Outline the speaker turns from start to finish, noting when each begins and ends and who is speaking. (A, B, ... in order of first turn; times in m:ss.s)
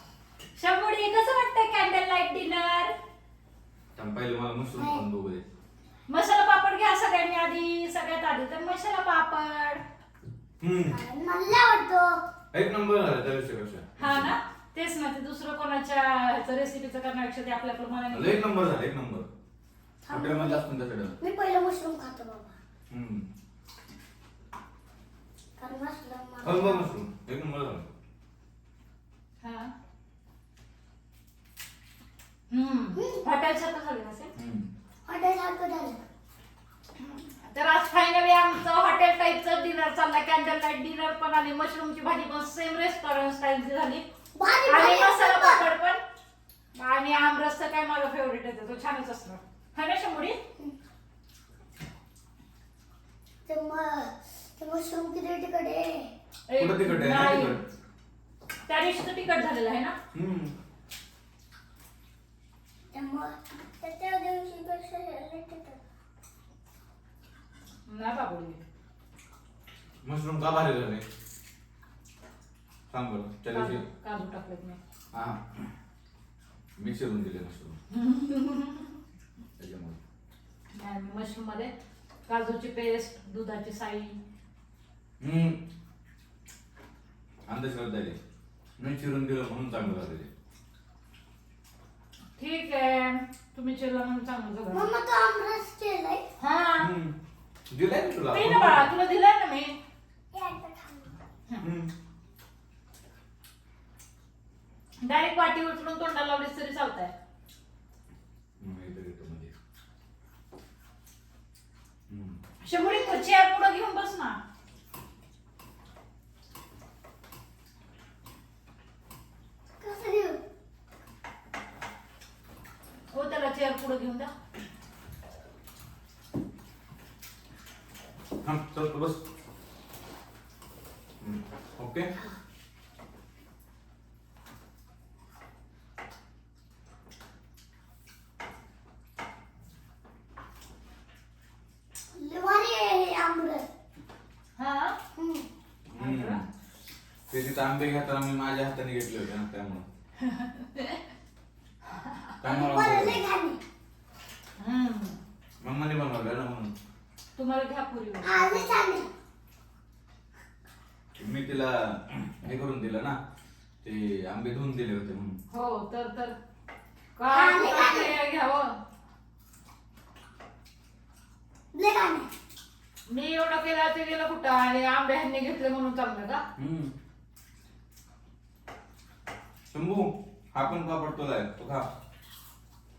0:00.6-0:02.9 A
0:03.9-0:05.4 B
0:04.8-0:05.0 C
0:06.1-0:09.8 A
0:10.6-0:11.0 B
0:10.9-0:12.2 C
0:12.5-0:14.3 B
0:14.0-0:18.4 A
0:18.1-0:19.3 B
0:20.0-0:20.6 C
0:20.1-0:21.2 B
0:21.2-0:22.5 C
0:22.9-0:23.2 B
0:25.6-0:26.8 C
0:26.4-0:27.9 B
0:29.4-0:29.7 A
0:32.5-0:34.3 A
0:32.9-0:33.2 C
0:34.4-0:34.7 B
0:35.1-0:36.0 C
0:37.0-0:44.0 A
0:44.3-0:45.7 C
0:44.6-0:46.0 A
0:46.8-0:50.4 A
0:53.4-0:56.1 C
0:56.5-0:57.7 A
0:56.6-0:57.6 B
0:58.7-0:59.9 A
1:00.1-1:00.5 B
1:02.9-1:05.8 C
1:07.9-1:08.6 A
1:10.0-1:11.0 B
1:12.9-1:13.8 B
1:13.5-1:14.8 A
1:15.1-1:15.7 B
1:16.8-1:17.8 B
1:17.9-1:19.0 A
1:19.6-1:20.0 B
1:20.7-1:21.7 A
1:22.3-1:24.2 A
1:25.2-1:25.6 B
1:27.5-1:28.2 B
1:28.8-1:30.3 B
1:32.4-1:34.9 A
1:34.7-1:36.2 C
1:36.4-1:36.9 A
1:36.8-1:37.1 B
1:37.7-1:38.9 B
1:38.3-1:39.8 A
1:40.3-1:41.2 C
1:41.6-1:41.9 B
1:45.0-1:47.1 A
1:48.6-1:49.5 B
1:52.1-1:52.4 B
1:52.6-1:54.4 A
1:52.7-1:53.2 C
1:59.8-2:00.4 C
2:03.1-2:04.3 A
2:08.4-2:09.2 B
2:11.2-2:12.1 B
2:22.1-2:23.6 C
2:24.6-2:25.0 A
2:25.1-2:25.4 C
2:25.9-2:26.4 B
2:26.0-2:26.4 A
2:27.3-2:29.8 B
2:30.2-2:31.0 A
2:32.4-2:33.2 B
2:32.4-2:33.6 C
2:34.6-2:35.2 A
2:35.6-2:36.7 B
2:37.4-2:38.7 A
2:38.2-2:39.1 C
2:41.2-2:43.2 B
2:43.8-2:45.4 B
2:45.5-2:46.3 A
2:47.2-2:48.7 A
2:47.3-2:48.1 C
2:51.7-2:52.3 C
2:53.1-2:56.4 A
2:56.6-2:56.9 B
2:59.7-3:01.8 B